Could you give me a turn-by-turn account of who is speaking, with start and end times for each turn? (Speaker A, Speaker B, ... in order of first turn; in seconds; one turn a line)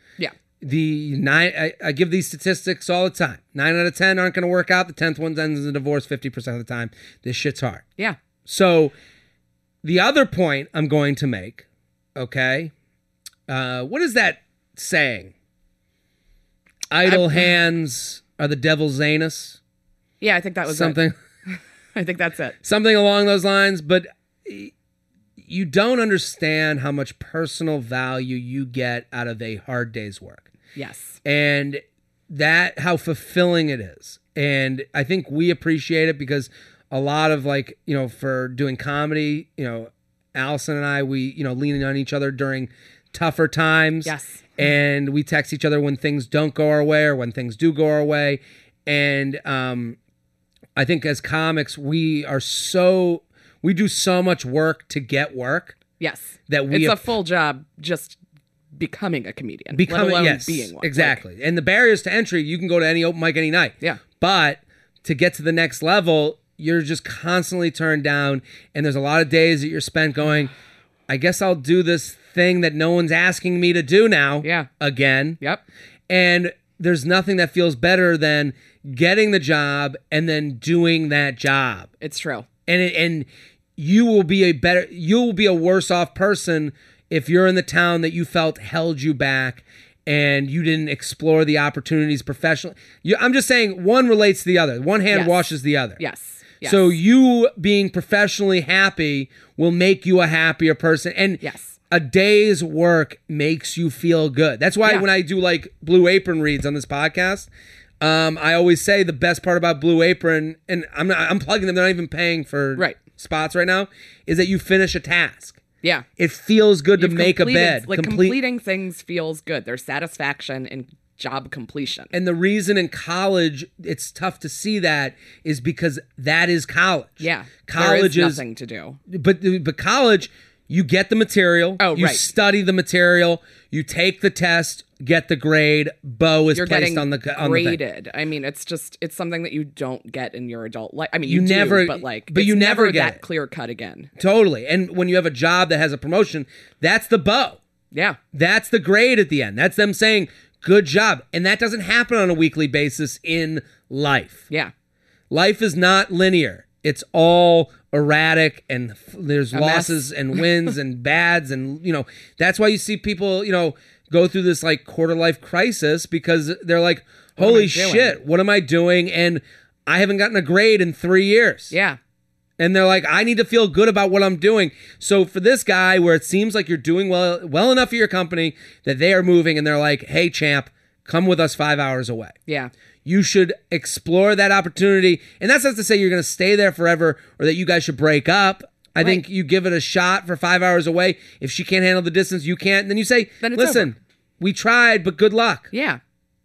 Speaker A: 0.6-7.9
Speaker A: 8.4-8.9
Speaker A: 9.8-12.7
Speaker A: 13.5-15.3
Speaker A: 16.9-19.6
Speaker B: 17.0-17.4
Speaker B: 20.2-22.6
Speaker A: 20.7-21.1
Speaker A: 22.6-24.7
Speaker A: 25.4-30.5
Speaker B: 30.8-31.2
Speaker A: 31.2-50.0
Speaker B: 44.0-44.5
Speaker A: 50.8-55.8
Speaker B: 56.0-58.2
Speaker A: 56.5-57.1
Speaker B: 58.8-61.2
Speaker A: 59.7-70.5
Speaker A: 71.1-75.4
Speaker B: 74.4-74.7
Speaker A: 76.1-81.9
Speaker B: 82.0-82.5
Speaker A: 82.7-96.0
Speaker B: 95.1-95.5
Speaker B: 96.0-97.0
Speaker A: 96.6-115.6
Speaker B: 101.4-101.8
Speaker A: 116.2-118.4
Speaker B: 117.0-122.1
Speaker A: 122.1-128.4
Speaker B: 127.2-129.0
Speaker A: 129.1-137.8
Speaker B: 131.8-132.2
Speaker B: 136.5-144.1
Speaker A: 141.2-143.2
Speaker A: 144.2-147.6
Speaker B: 147.9-148.2
Speaker A: 148.3-154.4
Speaker A: 155.3-171.7
Speaker B: 159.5-160.4
Speaker B: 167.4-168.1
Speaker B: 171.7-172.0
Speaker A: 172.6-182.4
Speaker A: 183.1-195.7
Speaker B: 193.4-193.9
Speaker B: 195.7-196.0